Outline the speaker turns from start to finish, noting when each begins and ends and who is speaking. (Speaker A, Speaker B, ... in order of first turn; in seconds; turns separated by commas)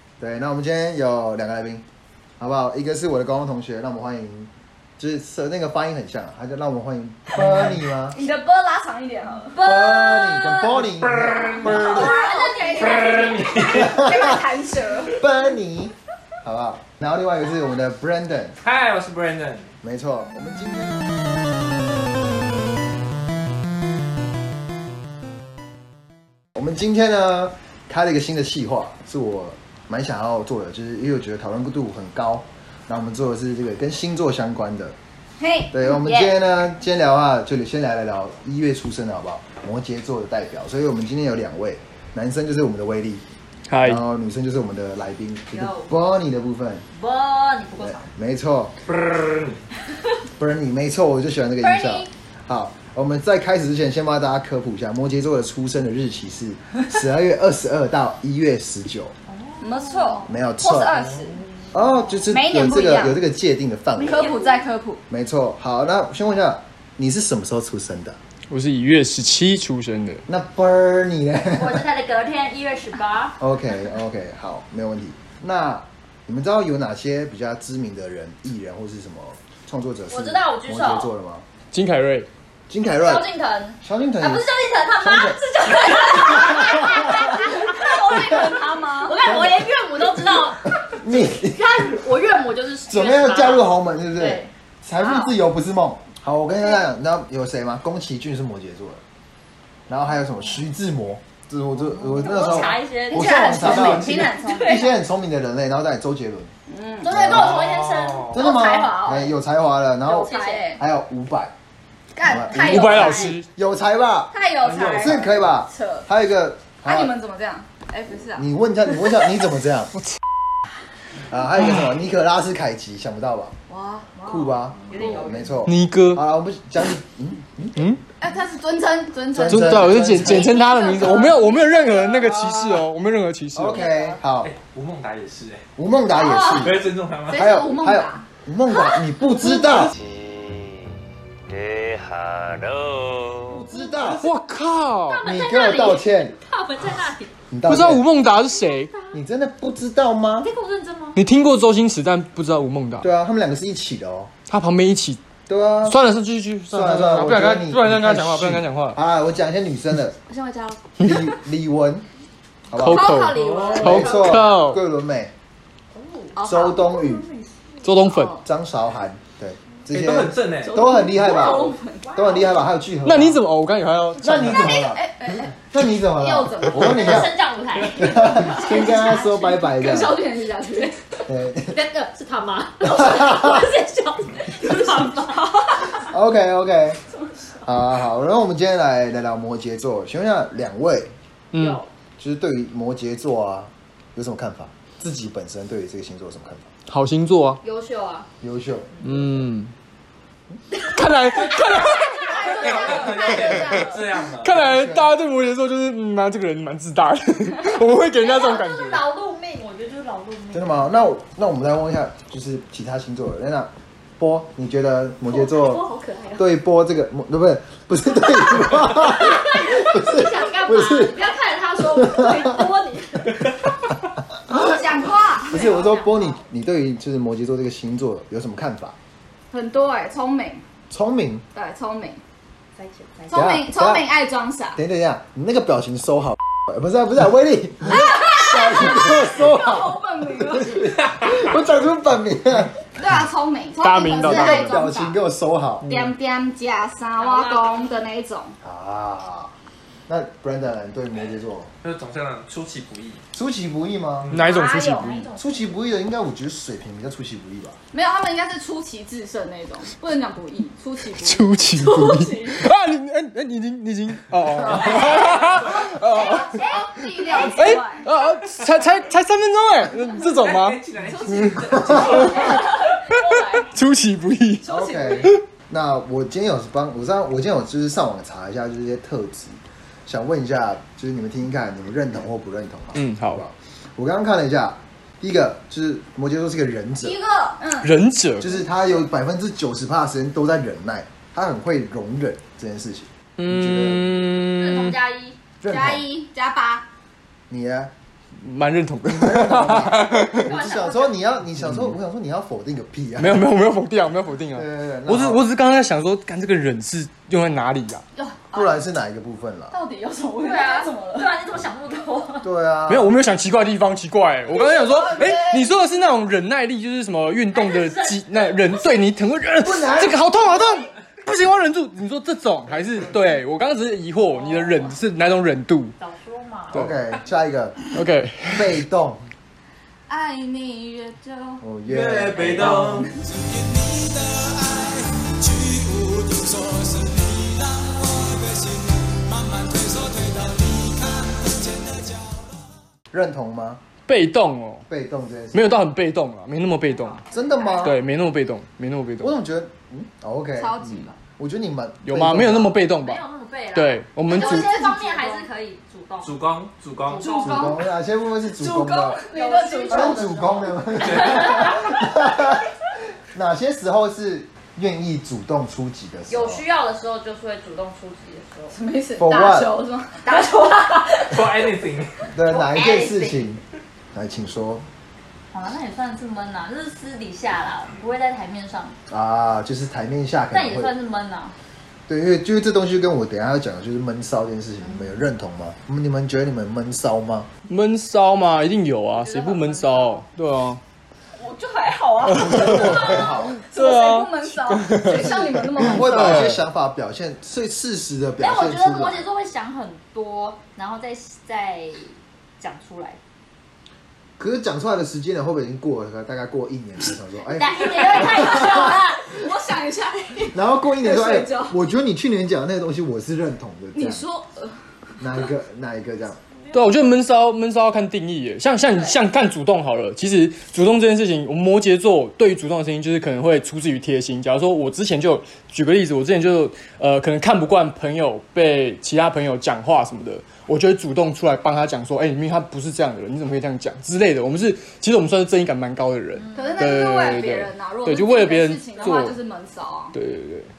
Speaker A: 0.2-1.8, Speaker A: 2.4-8.2, Speaker B: 7.3-7.7, Speaker C: 8.1-9.6, Speaker D: 9.5-10.8, Speaker A: 9.6-12.2, Speaker B: 10.8-12.1, Speaker D: 11.4-13.5, Speaker C: 11.7-15.2, Speaker B: 12.7-13.9, Speaker A: 13.7-14.4, Speaker A: 15.1-18.6, Speaker B: 18.6-19.7, Speaker A: 19.8-21.2, Speaker A: 26.5-35.0, Speaker C: 35.4-36.3, Speaker A: 35.7-43.2, Speaker E: 43.7-44.0, Speaker A: 43.8-46.8, Speaker D: 45.5-46.0, Speaker D: 46.9-48.0, Speaker A: 47.8-48.7, Speaker B: 48.9-49.6, Speaker A: 50.4-59.1, Speaker D: 51.6-52.1, Speaker D: 59.3-60.3, Speaker C: 59.6-61.4, Speaker A: 60.2-61.0, Speaker D: 61.3-62.2, Speaker A: 61.7-64.3, Speaker C: 62.3-63.2, Speaker C: 64.0-65.0, Speaker D: 64.0-64.7, Speaker A: 65.1-68.2, Speaker E: 68.5-70.2, Speaker A: 70.3-71.8, Speaker D: 71.5-73.4, Speaker A: 73.4-81.4, Speaker D: 80.1-81.1, Speaker E: 81.7-82.3, Speaker A: 82.7-83.3, Speaker D: 83.0-88.4, Speaker A: 83.8-87.2, Speaker C: 86.7-89.4, Speaker A: 88.1-88.6, Speaker D: 89.0-94.5, Speaker A: 89.2-92.0, Speaker A: 92.9-99.0, Speaker C: 95.0-95.3, Speaker A: 99.9-106.5, Speaker D: 102.0-104.9, Speaker C: 102.3-104.9, Speaker C: 106.7-107.3, Speaker D: 107.0-109.2, Speaker A: 107.0-107.6, Speaker B: 107.3-108.4, Speaker A: 108.3-111.5, Speaker C: 108.3-109.2, Speaker C: 110.1-110.8, Speaker D: 110.1-110.8, Speaker C: 112.1-113.4, Speaker A: 112.2-117.1, Speaker D: 112.5-113.3, Speaker E: 112.5-113.5, Speaker C: 114.3-116.0, Speaker C: 116.8-118.4, Speaker A: 118.3-120.0, Speaker A: 121.3-123.5, Speaker C: 123.7-124.1, Speaker D: 124.1-125.7, Speaker A: 124.2-127.9, Speaker E: 125.6-126.2, Speaker C: 128.2-132.2, Speaker A: 129.3-130.6, Speaker E: 129.5-133.9, Speaker D: 130.7-131.3, Speaker A: 132.2-132.8, Speaker A: 133.5-134.5, Speaker C: 133.7-134.2, Speaker B: 134.4-135.7, Speaker A: 135.8-140.0, Speaker C: 136.1-138.2, Speaker B: 136.4-137.5, Speaker F: 139.9-140.9, Speaker F: 141.5-143.7, Speaker A: 143.5-144.2, Speaker D: 143.7-144.2, Speaker B: 144.0-144.2, Speaker E: 144.2-145.2, Speaker D: 145.1-147.3, Speaker A: 145.2-146.3, Speaker A: 147.5-148.1, Speaker E: 147.7-148.9, Speaker D: 148.4-149.2, Speaker A: 149.1-150.5, Speaker D: 150.4-151.2, Speaker E: 151.2-153.1, Speaker A: 153.0-154.3, Speaker E: 154.5-155.2, Speaker A: 155.5-156.0, Speaker E: 155.8-159.0, Speaker A: 156.7-160.2, Speaker D: 160.3-160.8, Speaker A: 161.0-162.1, Speaker A: 162.7-165.3, Speaker E: 162.7-164.8, Speaker C: 162.9-164.4, Speaker D: 163.1-164.6, Speaker B: 163.3-163.9, Speaker D: 165.9-167.9, Speaker C: 166.3-167.2, Speaker A: 166.4-167.2, Speaker E: 167.8-168.4, Speaker C: 168.1-168.4, Speaker A: 168.4-173.4, Speaker B: 169.9-170.9, Speaker C: 170.6-172.1, Speaker D: 171.2-172.7, Speaker E: 173.0-174.8, Speaker A: 174.2-175.1, Speaker C: 174.5-175.5, Speaker A: 175.7-177.3, Speaker C: 176.1-177.3, Speaker D: 176.8-179.8, Speaker A: 177.9-180.2, Speaker C: 178.3-181.2, Speaker A: 181.3-181.8, Speaker D: 181.7-186.0, Speaker A: 182.8-183.7, Speaker A: 185.9-187.0, Speaker A: 187.6-191.1, Speaker E: 191.5-191.8, Speaker D: 191.6-191.9, Speaker A: 192.2-196.7, Speaker E: 196.9-197.6, Speaker D: 197.6-198.3, Speaker A: 198.4-199.2, Speaker E: 199.0-199.7, Speaker E: 200.8-202.4, Speaker D: 201.5-203.3, Speaker C: 201.6-204.2, Speaker B: 202.3-204.6, Speaker E: 204.4-209.0, Speaker A: 204.6-205.1, Speaker D: 208.2-210.9, Speaker A: 210.5-221.2, Speaker D: 215.3-216.4, Speaker C: 215.6-216.1, Speaker D: 218.4-223.4, Speaker C: 219.3-220.5, Speaker C: 221.1-223.4, Speaker A: 221.8-222.7, Speaker C: 224.5-225.7, Speaker A: 225.5-229.0, Speaker D: 225.5-226.4, Speaker C: 229.5-230.6, Speaker A: 230.9-231.4, Speaker C: 231.5-232.2, Speaker D: 232.8-233.5, Speaker C: 233.3-234.8, Speaker A: 233.3-234.1, Speaker A: 234.8-242.8, Speaker C: 237.9-241.0, Speaker C: 242.9-245.2, Speaker E: 243.8-245.0, Speaker A: 244.2-245.9, Speaker E: 245.8-246.1, Speaker C: 245.8-248.5, Speaker D: 247.2-248.0, Speaker A: 248.6-249.5, Speaker A: 250.1-251.7, Speaker B: 251.8-253.2, Speaker A: 253.3-254.3, Speaker B: 254.2-254.6, Speaker E: 254.3-255.3, Speaker C: 254.4-255.1, Speaker D: 254.5-255.8, Speaker A: 255.3-257.8, Speaker C: 257.9-262.6, Speaker E: 261.2-272.3, Speaker A: 264.6-265.2, Speaker C: 264.9-268.1, Speaker B: 270.2-272.8, Speaker C: 271.1-273.7, Speaker A: 271.9-272.3, Speaker E: 273.0-275.4, Speaker C: 274.6-275.3, Speaker A: 274.6-287.2, Speaker E: 282.9-283.4, Speaker C: 287.0-287.9, Speaker E: 287.8-288.5, Speaker A: 288.4-294.0, Speaker E: 293.4-295.0, Speaker D: 294.5-295.4, Speaker A: 295.6-296.1, Speaker C: 295.7-296.9, Speaker A: 297.5-297.9, Speaker E: 298.4-300.6, Speaker A: 299.0-303.5, Speaker D: 300.3-301.3, Speaker E: 301.6-301.9, Speaker E: 303.2-308.0, Speaker A: 304.5-305.4, Speaker C: 308.1-308.8, Speaker A: 308.5-309.8, Speaker C: 309.7-311.3, Speaker D: 310.4-312.5, Speaker A: 312.4-313.1, Speaker E: 312.9-325.9, Speaker C: 314.5-315.9, Speaker D: 317.5-318.8, Speaker A: 319.6-320.2, Speaker D: 324.2-325.0, Speaker D: 326.0-326.9, Speaker E: 326.7-327.0, Speaker A: 326.7-327.9, Speaker E: 327.9-328.8, Speaker A: 328.5-329.3, Speaker C: 330.1-331.6, Speaker A: 331.6-333.0, Speaker B: 331.9-333.1, Speaker C: 332.4-333.3, Speaker A: 343.1-343.8, Speaker E: 344.1-344.8, Speaker A: 344.9-345.8, Speaker E: 345.5-347.2, Speaker D: 346.9-347.9, Speaker A: 347.3-348.0, Speaker E: 347.8-349.3, Speaker A: 349.2-352.8, Speaker C: 350.6-351.1, Speaker E: 352.0-353.2, Speaker D: 353.0-356.4, Speaker E: 353.7-354.7, Speaker C: 354.3-355.5, Speaker B: 356.2-357.4, Speaker D: 357.1-357.8, Speaker C: 357.1-357.8, Speaker A: 357.4-359.2, Speaker C: 358.6-361.8, Speaker D: 359.2-361.9, Speaker A: 359.9-362.7, Speaker A: 363.3-366.6, Speaker D: 366.3-368.8, Speaker C: 368.7-371.7, Speaker A: 369.1-369.7, Speaker D: 370.2-370.7, Speaker B: 371.3-372.3, Speaker A: 372.3-373.6, Speaker D: 372.5-373.5, Speaker A: 374.1-374.9, Speaker D: 375.5-378.9, Speaker A: 379.1-380.9, Speaker D: 380.5-381.5, Speaker A: 382.1-387.5, Speaker D: 384.8-385.2, Speaker E: 387.7-390.8, Speaker D: 389.1-390.2, Speaker C: 391.4-396.5, Speaker E: 392.3-396.6, Speaker A: 392.3-393.6, Speaker A: 395.2-399.2, Speaker D: 398.4-403.2, Speaker A: 404.4-408.9, Speaker D: 407.5-409.2, Speaker C: 408.0-411.8, Speaker A: 410.5-414.2, Speaker C: 413.9-415.2, Speaker A: 415.2-416.4, Speaker E: 416.7-439.4, Speaker D: 436.3-436.9, Speaker C: 436.5-440.1, Speaker E: 440.1-440.7